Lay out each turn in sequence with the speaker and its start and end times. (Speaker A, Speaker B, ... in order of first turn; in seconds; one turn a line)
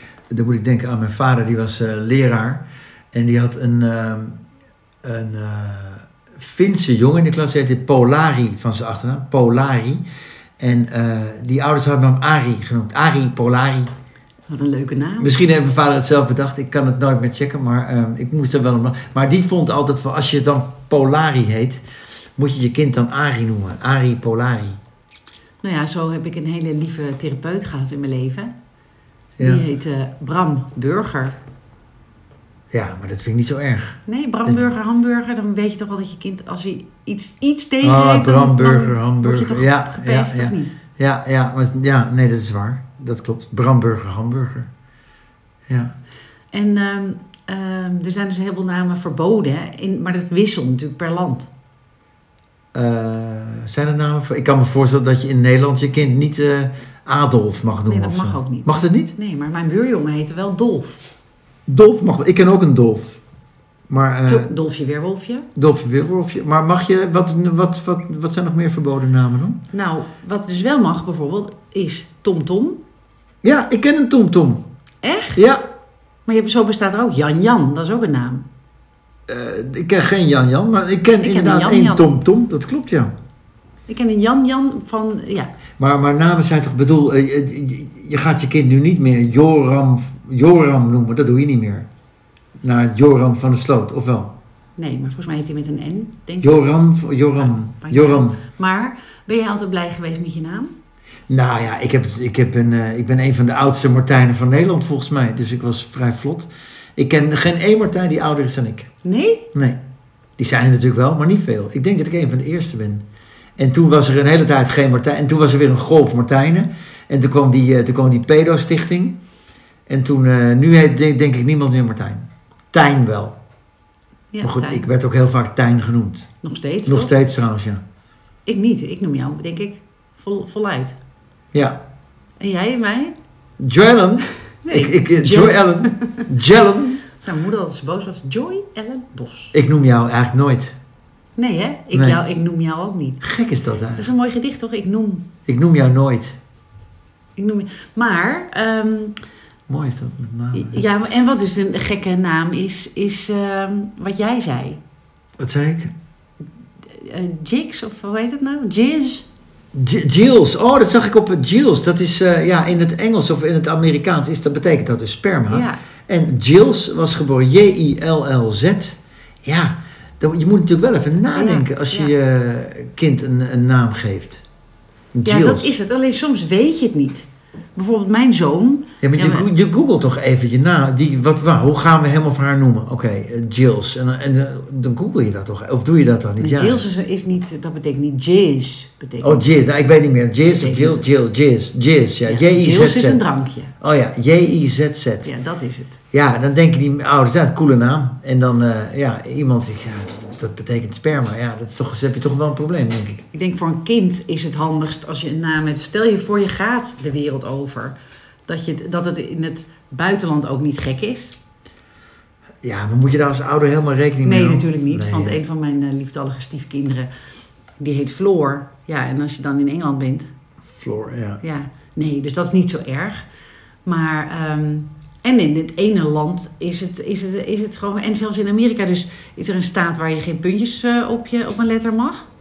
Speaker A: 0.3-4.4
Speaker A: 5.0-10.0
Speaker A: 10.6-13.9
Speaker B: 14.5-15.3
Speaker A: 15.2-21.8
Speaker A: 22.4-24.8
Speaker B: 25.6-28.5
Speaker A: 29.4-29.6
Speaker B: 29.4-31.4
Speaker A: 32.7-34.6
Speaker B: 34.1-40.8
Speaker A: 37.8-44.7
Speaker A: 45.7-45.9
Speaker B: 46.5-51.5
Speaker A: 52.7-59.1
Speaker B: 57.9-61.1
Speaker A: 61.7-63.2
Speaker A: 63.9-64.5
Speaker B: 64.3-65.5
Speaker A: 65.5-69.6
Speaker B: 69.7-72.8
Speaker A: 73.4-74.6
Speaker B: 75.0-75.4
Speaker A: 75.3-75.6
Speaker B: 76.2-78.4
Speaker A: 79.3-83.1
Speaker B: 81.2-82.1
Speaker B: 83.9-85.5
Speaker A: 85.8-91.9
Speaker A: 92.6-94.3
Speaker B: 94.8-96.6
Speaker A: 96.4-98.4
Speaker B: 97.4-100.7
Speaker A: 101.3-108.9
Speaker B: 109.0-109.5
Speaker A: 109.5-109.8
Speaker A: 110.4-113.0
Speaker A: 113.6-119.2
Speaker A: 119.9-123.4
Speaker B: 124.3-124.8
Speaker A: 124.4-126.2
Speaker B: 126.4-127.1
Speaker A: 126.8-127.8
Speaker B: 128.4-130.9
Speaker A: 131.5-131.8
Speaker B: 132.4-133.1
Speaker A: 133.6-137.0
Speaker B: 134.6-136.3
Speaker B: 137.1-139.5
Speaker A: 139.5-140.7
Speaker B: 141.4-143.2
Speaker A: 141.9-142.2
Speaker A: 143.2-144.1
Speaker B: 144.0-145.2
Speaker A: 145.4-146.3
Speaker B: 147.4-149.2
Speaker A: 149.7-150.8
Speaker B: 150.5-154.8
Speaker A: 155.4-155.9
Speaker B: 156.9-159.3
Speaker A: 159.7-174.4
Speaker B: 165.5-165.8
Speaker B: 171.3-172.1
Speaker A: 175.1-175.7
Speaker B: 175.2-179.5
Speaker A: 179.0-186.8
Speaker B: 186.4-189.5
Speaker A: 189.2-193.3
Speaker B: 190.4-191.1
Speaker B: 192.2-193.7
Speaker A: 193.8-195.3
Speaker B: 195.2-196.0
Speaker A: 196.1-203.2
Speaker B: 203.3-207.9
Speaker B: 208.5-211.3
Speaker A: 212.6-215.4
Speaker B: 214.2-217.1
Speaker B: 217.8-220.3
Speaker A: 220.7-221.4
Speaker B: 221.4-223.2
Speaker B: 223.8-232.3